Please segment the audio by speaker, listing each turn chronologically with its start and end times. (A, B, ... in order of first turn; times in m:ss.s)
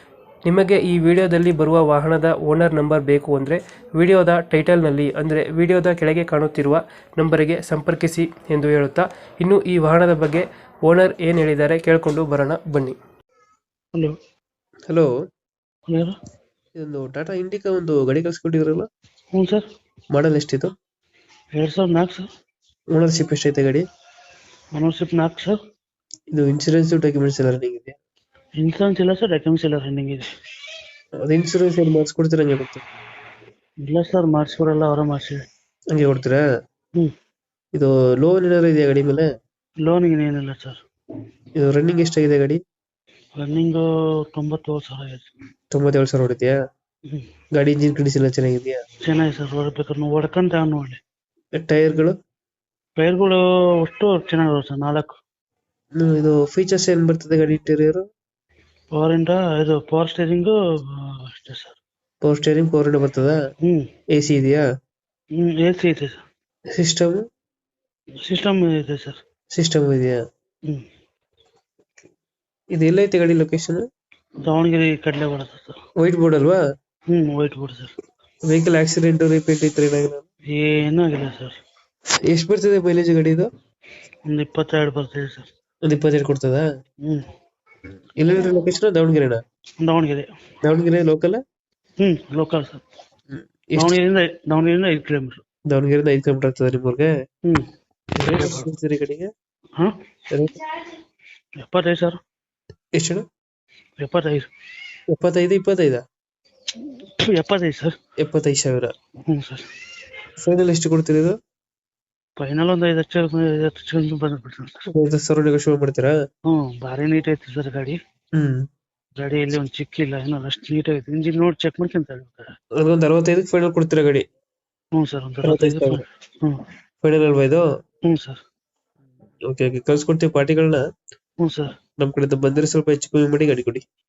0:00.4-0:13.0 A
0:15.9-0:16.1 B
0:16.8-0:18.9 A
0:19.3-0:19.6 B
0:20.1-0:20.7 A
0:21.5-0:22.3 B
0:22.9-0:23.8 A
0:24.7-0:25.5 B
0:26.3-0:28.0 A
0:28.6-0:30.3 B
0:31.2-0:32.8 A
0:33.8-0:35.4 B
0:35.9-0:36.4 A
0:37.7-0:39.2 A
0:39.8-0:40.8 B
0:41.6-0:42.6 A
0:43.4-0:45.3 B
0:45.7-0:46.5 A
0:47.5-0:48.8 A
0:49.0-0:51.0 B
0:51.5-0:52.2 A
0:53.0-0:55.1 B
0:56.0-0:58.0 A
0:58.9-1:01.8 B
1:02.2-1:03.4 A
1:03.6-1:03.9 B
1:04.1-1:04.6 A
1:05.4-1:06.2 B
1:06.7-1:07.2 A
1:08.2-1:09.2 B
1:09.5-1:10.2 A
1:12.7-1:13.8 A
1:14.4-1:15.8 B
1:16.0-1:16.6 A
1:17.1-1:17.9 B
1:18.4-1:20.2 A
1:20.5-1:21.6 B
1:22.3-1:23.5 A
1:24.3-1:25.5 B
1:25.8-1:26.6 A
1:28.2-1:29.4 A
1:29.8-1:30.3 B
1:30.6-1:31.4 A
1:32.0-1:32.8 B
1:33.3-1:33.9 A
1:33.8-1:35.4 B
1:35.7-1:37.1 A
1:38.2-1:39.3 A
1:38.2-1:38.7 B
1:40.3-1:40.6 A
1:41.6-1:42.2 B
1:42.9-1:43.2 A
1:44.0-1:44.5 B
1:45.1-1:46.0 A
1:46.8-1:47.9 B
1:48.2-1:48.9 A
1:49.2-1:49.7 B
1:50.4-1:51.4 A
1:52.4-1:54.8 B
1:54.9-1:56.1 A
1:56.5-1:58.0 B
1:58.3-1:58.6 A
1:59.2-2:02.5 B
2:02.8-2:04.2 A
2:04.9-2:06.6 B
2:05.4-2:06.0 A
2:07.0-2:07.6 A
2:08.1-2:08.4 B
2:09.5-2:10.8 A
2:11.4-2:11.7 B
2:12.0-2:13.8 A